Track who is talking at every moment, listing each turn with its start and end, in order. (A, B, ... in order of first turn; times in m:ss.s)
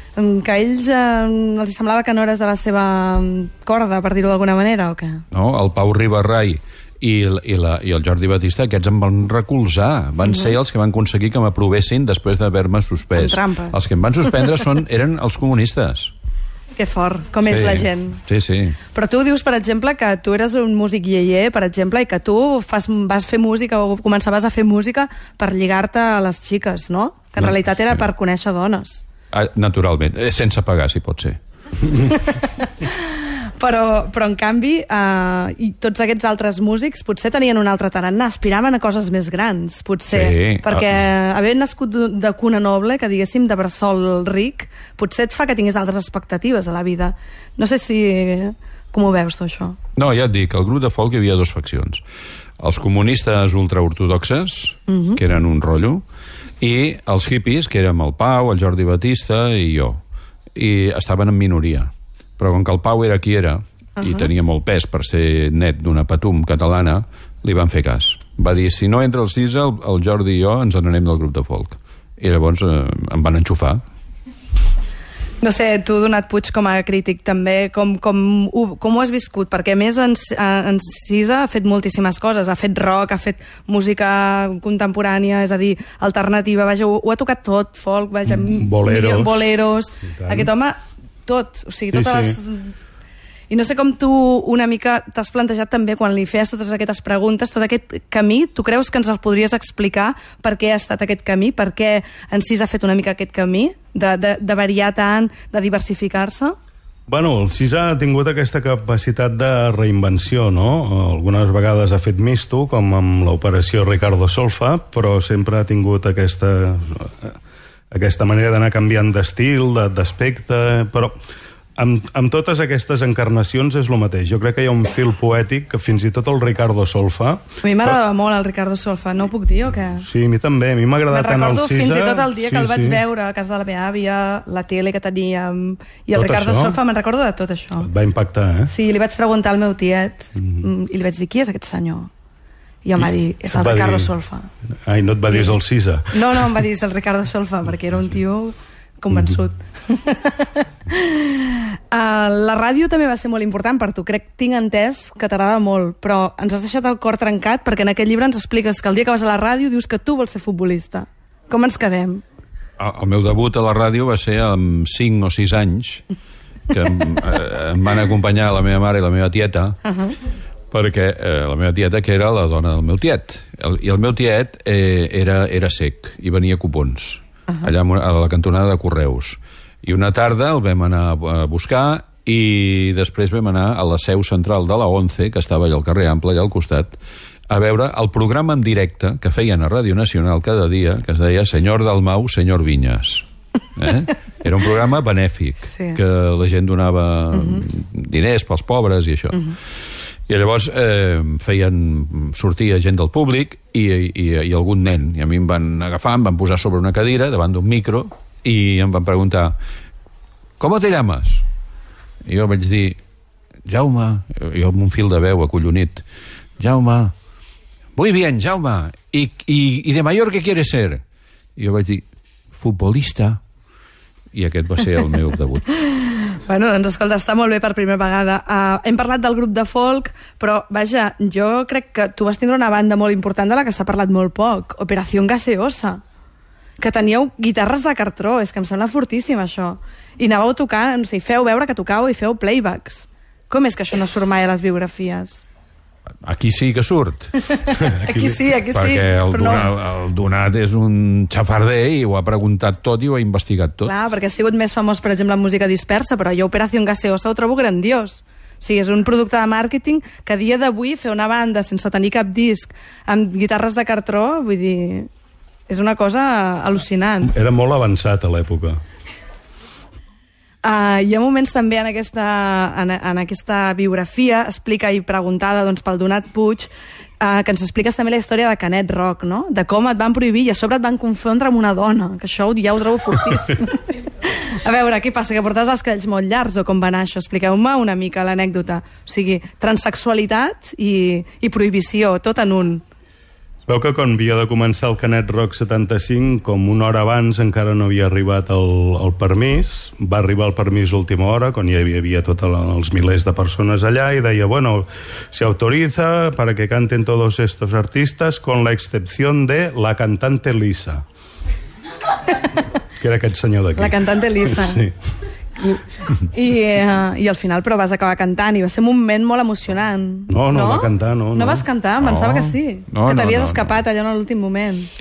0:00.1-0:05.2 A
0:05.3-0:16.1 B
0:13.1-0:13.8 A
0:16.7-0:18.2 A
0:17.4-0:18.8 B
0:18.9-0:29.0 A
0:27.4-0:28.0 B
0:29.3-0:31.4 B
0:31.9-0:49.8 A
0:40.1-0:41.0 B
0:50.0-0:52.0 B
0:52.6-0:56.0 B
0:54.9-0:55.2 A
0:56.6-1:00.0 B
1:00.6-1:13.8 B
1:04.0-1:04.3 A
1:15.4-1:32.7 A
1:28.3-1:29.5 C
1:30.2-1:30.5 C
1:31.9-1:32.4 C
1:33.5-1:46.5 A
1:47.1-1:57.4 C
1:57.9-2:01.2 C
2:01.8-2:08.0 C
2:07.6-2:10.0 A
2:10.0-2:13.0 C
2:11.1-2:17.9 A
2:16.1-2:16.8 C
2:17.8-2:18.7 C
2:18.7-2:22.1 A
2:22.8-2:24.5 A
2:23.0-2:24.1 C
2:24.8-2:26.1 C
2:25.3-2:25.6 A
2:26.1-2:42.2 A
2:42.8-2:46.0 B
2:46.7-2:49.8 B
2:49.8-2:50.1 A
2:50.7-3:07.0 B
3:07.5-3:19.5 B
3:15.7-3:16.0 A
3:17.3-3:17.6 A
3:20.3-3:29.6 B
3:30.6-3:31.4 B
3:32.2-3:33.0 B
3:33.6-3:36.0 B
3:36.6-3:37.1 B
3:38.0-3:41.0 B
3:41.6-3:43.4 B
3:44.3-3:45.7 B
3:45.7-3:56.0 A
3:56.8-4:05.4 A
4:06.2-4:07.4 B
4:07.4-4:09.7 A
4:07.8-4:08.4 C
4:08.7-4:13.9 B
4:13.8-4:25.1 A
4:25.7-4:27.3 A
4:27.2-4:28.8 C
4:30.6-4:52.8 A
4:53.6-5:11.0 C
5:13.0-5:14.9 C
5:13.8-5:14.8 A
5:15.6-5:24.9 A
5:20.3-5:21.6 C
5:22.0-5:23.8 B